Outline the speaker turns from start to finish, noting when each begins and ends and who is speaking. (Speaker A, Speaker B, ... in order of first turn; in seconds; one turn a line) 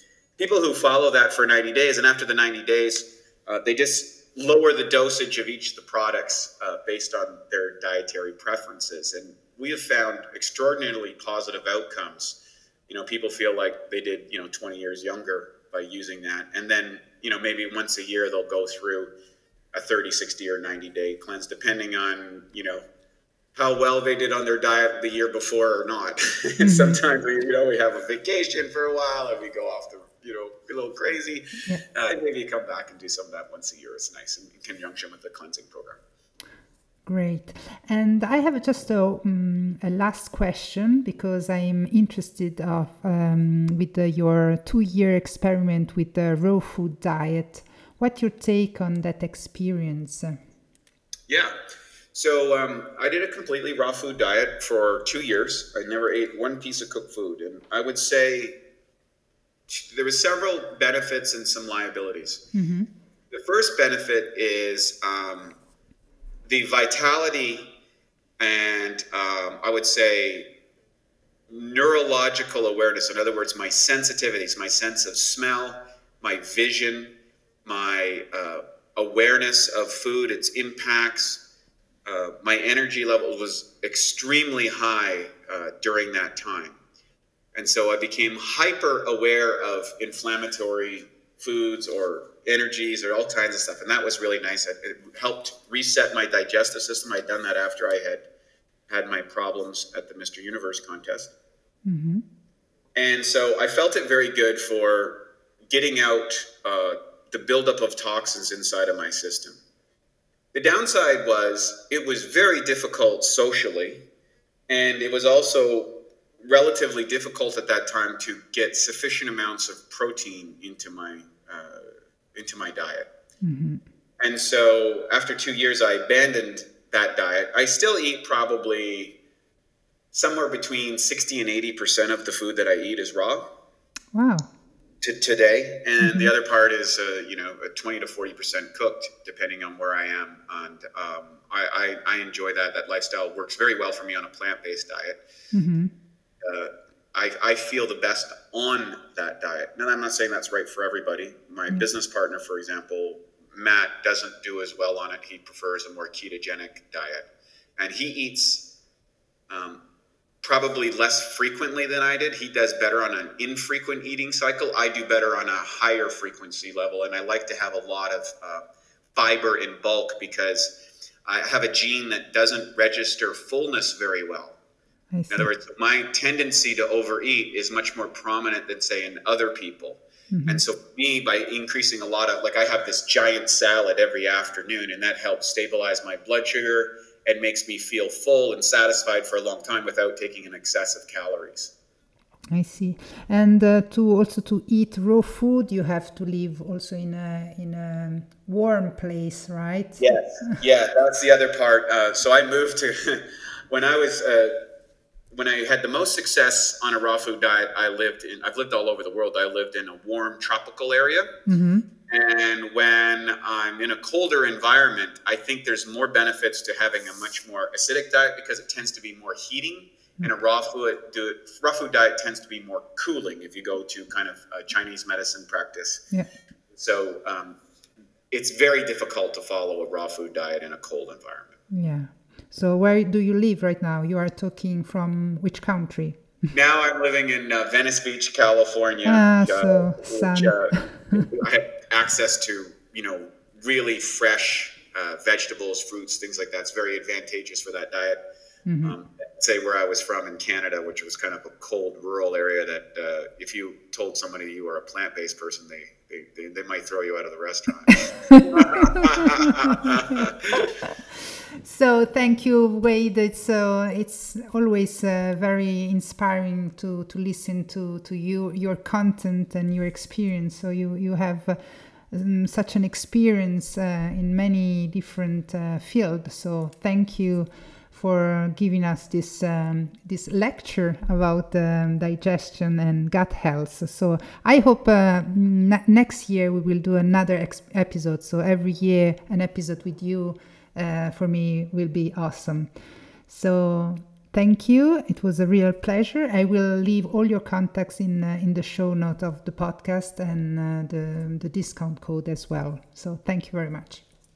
Speaker A: 0.4-19.1
Speaker A: 19.7-22.8
Speaker A: 23.5-36.0
Speaker B: 26.6-27.0
Speaker B: 37.0-50.4
Speaker A: 51.3-51.5
Speaker A: 52.1-58.6
Speaker A: 59.7-62.5
Speaker B: 62.5-62.9
Speaker A: 63.3-65.6
Speaker A: 66.5-67.7
Speaker A: 68.4-70.5
Speaker A: 71.5-77.1
Speaker A: 77.6-81.4
Speaker A: 82.0-86.8
Speaker A: 87.5-98.2
Speaker A: 98.9-101.3
Speaker B: 101.8-102.2
Speaker A: 102.9-109.6
Speaker A: 110.5-114.0
Speaker A: 114.7-123.1
Speaker B: 123.4-123.8
Speaker A: 124.2-129.2
Speaker A: 130.1-133.5
Speaker B: 134.1-134.5
Speaker A: 135.0-145.2
Speaker B: 136.0-136.3
Speaker B: 145.5-145.9
Speaker A: 146.4-158.7
Speaker A: 159.5-159.8
Speaker A: 160.4-174.6
Speaker B: 175.1-175.5
Speaker A: 175.3-191.7
Speaker B: 180.3-180.6
Speaker B: 192.5-200.6
Speaker A: 200.0-204.6
Speaker A: 205.3-211.3
Speaker B: 211.4-211.8
Speaker A: 212.1-226.0
Speaker A: 226.7-227.6
Speaker A: 228.3-231.6
Speaker B: 231.7-236.3
Speaker A: 236.5-248.2
Speaker B: 239.1-241.2
Speaker B: 248.7-248.9
Speaker A: 248.8-260.6
Speaker B: 258.1-260.9
Speaker B: 261.6-292.7
Speaker B: 293.3-304.0